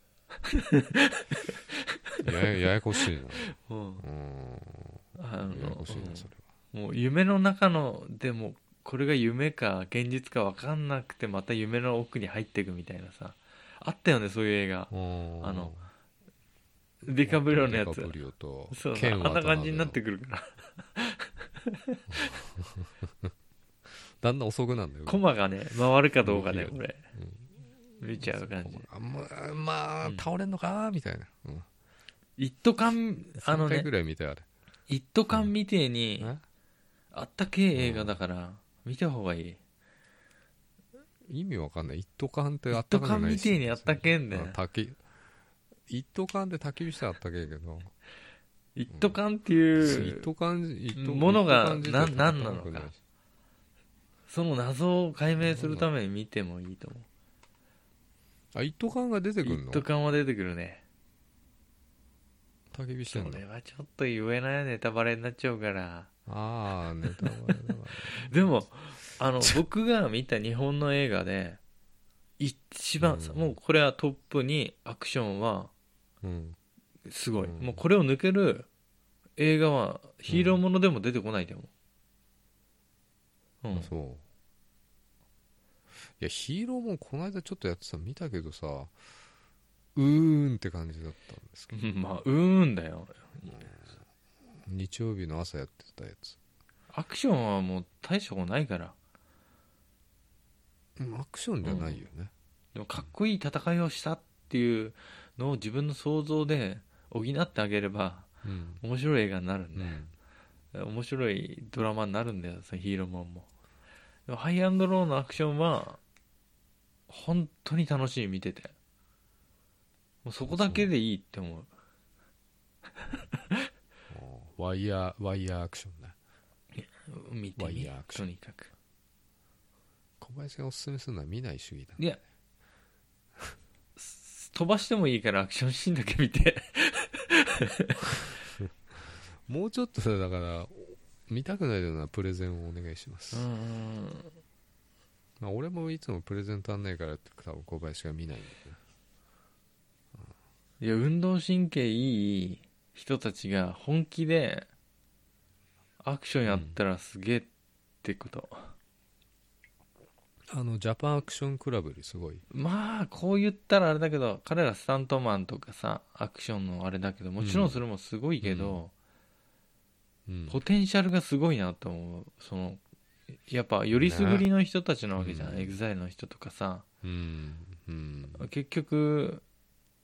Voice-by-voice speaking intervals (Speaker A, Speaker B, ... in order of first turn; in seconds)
Speaker A: 0.4-4.0, 5.2-15.8, 17.1-18.1, 18.7-22.3, 25.1-27.0, 28.0-28.9, 32.4-33.9, 34.9-36.3, 37.1-39.6, 42.7-44.6, 48.8-50.2, 50.9-52.9, 54.3-57.1, 59.4-60.8, 63.1-66.1, 67.2-71.6, 72.4-75.7, 77.0-78.7, 79.4-81.7, 83.6-83.9, 91.7-93.5, 96.9-99.0, 101.6-102.0, 102.8-108.3, 108.8-110.0, 110.7-113.5, 114.3-116.0, 117.1-118.7, 120.2-121.7, 123.2-123.6, 126.8-128.7, 134.0-138.0, 143.3-144.3, 150.8-154.7, 156.0-157.5, 158.0-158.7, 162.5-168.9, 170.5-172.8, 173.5-176.9, 178.3-179.4
Speaker B: 2.2-6.5, 14.9-15.9, 17.1-20.0, 22.1-23.3, 24.2-25.2, 26.2-27.5, 28.2-31.7, 33.4-34.5, 37.8-38.2, 41.3-45.0, 45.9-47.9, 49.8-53.0, 55.4-55.9, 58.5-59.9, 62.7-63.4, 66.3-68.6, 73.0-73.6, 76.2-76.6, 77.4-77.8, 80.3-80.6, 83.7-84.2, 86.0-89.0, 90.0-91.9, 93.4-94.0, 94.7-96.4, 101.0-102.3, 108.4-108.8, 109.8-110.1, 120.5-120.9, 124.1-126.2, 127.6-128.3, 130.2-132.0, 139.5-143.5, 145.4-148.8, 156.5-156.8, 160.5-162.4, 167.4-167.8, 168.4-168.8, 170.3-170.6, 173.9-174.5, 175.2-175.8, 177.0-178.5